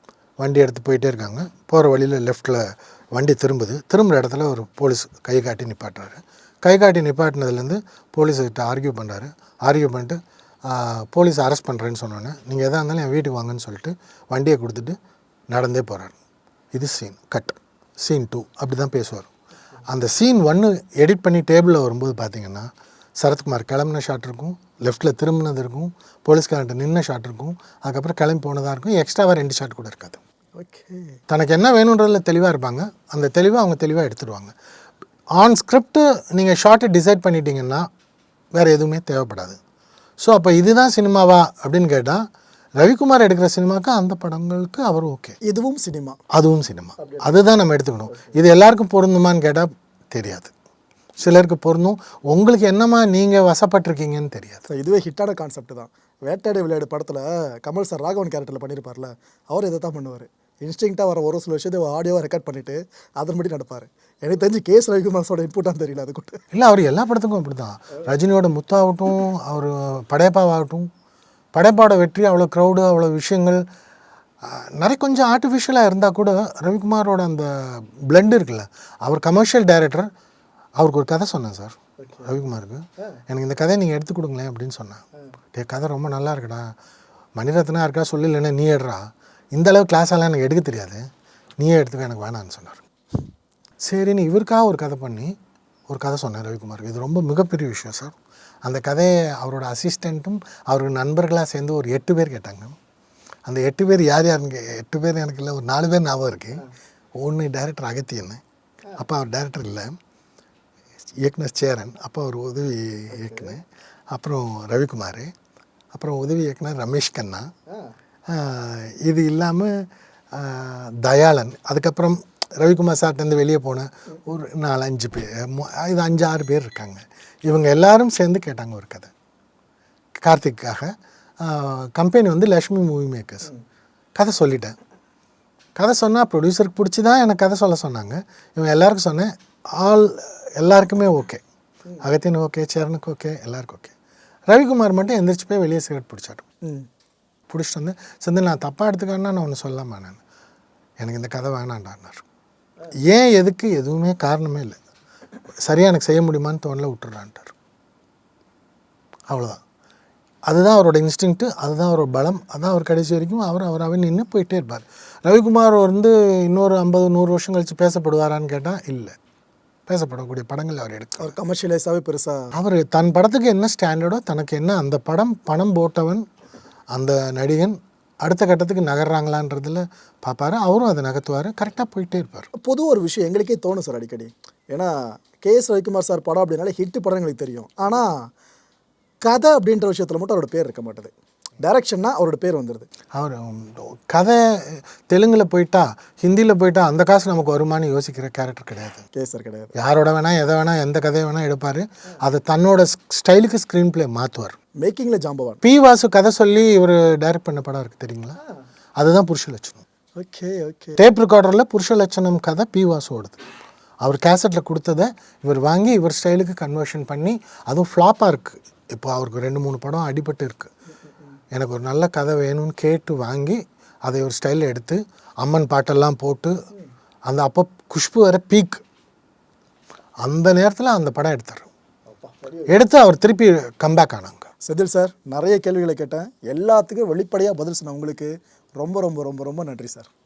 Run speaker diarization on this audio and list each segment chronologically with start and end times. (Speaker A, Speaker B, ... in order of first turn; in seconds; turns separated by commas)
Speaker A: 0.4-15.0, Speaker A: 15.5-16.1, Speaker A: 16.7-19.3, Speaker A: 19.9-30.2, Speaker B: 30.6-31.2, Speaker A: 31.3-34.5, Speaker A: 35.4-37.9, Speaker A: 38.5-39.6, Speaker A: 40.2-42.2, Speaker A: 42.8-45.4, Speaker B: 45.4-46.2, Speaker A: 46.3-50.5, Speaker B: 47.0-47.3, Speaker A: 51.2-54.6, Speaker B: 54.7-66.4, Speaker A: 66.5-70.9, Speaker A: 71.5-73.6, Speaker A: 74.4-80.1, Speaker A: 80.8-85.0, Speaker B: 82.0-82.3, Speaker A: 85.5-86.7, Speaker A: 87.3-91.0, Speaker A: 91.6-92.8, Speaker A: 93.8-95.3, Speaker A: 95.9-102.8, Speaker A: 103.5-106.6, Speaker A: 107.2-108.4, Speaker A: 109.0-110.0, Speaker A: 111.2-115.3, Speaker B: 113.1-113.5, Speaker A: 115.9-117.5, Speaker A: 118.3-129.1, Speaker A: 130.2-133.5, Speaker A: 134.2-134.7, Speaker A: 135.8-141.4, Speaker A: 142.0-143.9, Speaker A: 144.5-146.4, Speaker A: 147.5-150.2, Speaker A: 151.0-152.2, Speaker A: 153.1-154.8, Speaker A: 155.6-157.5, Speaker A: 159.3-159.6, Speaker A: 160.5-169.2, Speaker A: 169.9-171.3, Speaker B: 171.2-172.5, Speaker A: 172.5-176.2, Speaker A: 176.9-182.5, Speaker B: 182.6-188.3, Speaker B: 189.2-192.9, Speaker A: 193.1-199.0, Speaker B: 199.1-199.7, Speaker A: 199.7-204.6, Speaker B: 204.8-205.6, Speaker A: 205.6-208.4, Speaker A: 209.0-209.8, Speaker B: 210.2-211.0, Speaker A: 211.0-213.4, Speaker A: 214.0-220.7, Speaker A: 221.5-226.6, Speaker A: 227.3-228.8, Speaker A: 230.2-231.7, Speaker B: 232.1-232.7, Speaker A: 232.7-234.5, Speaker B: 234.6-240.1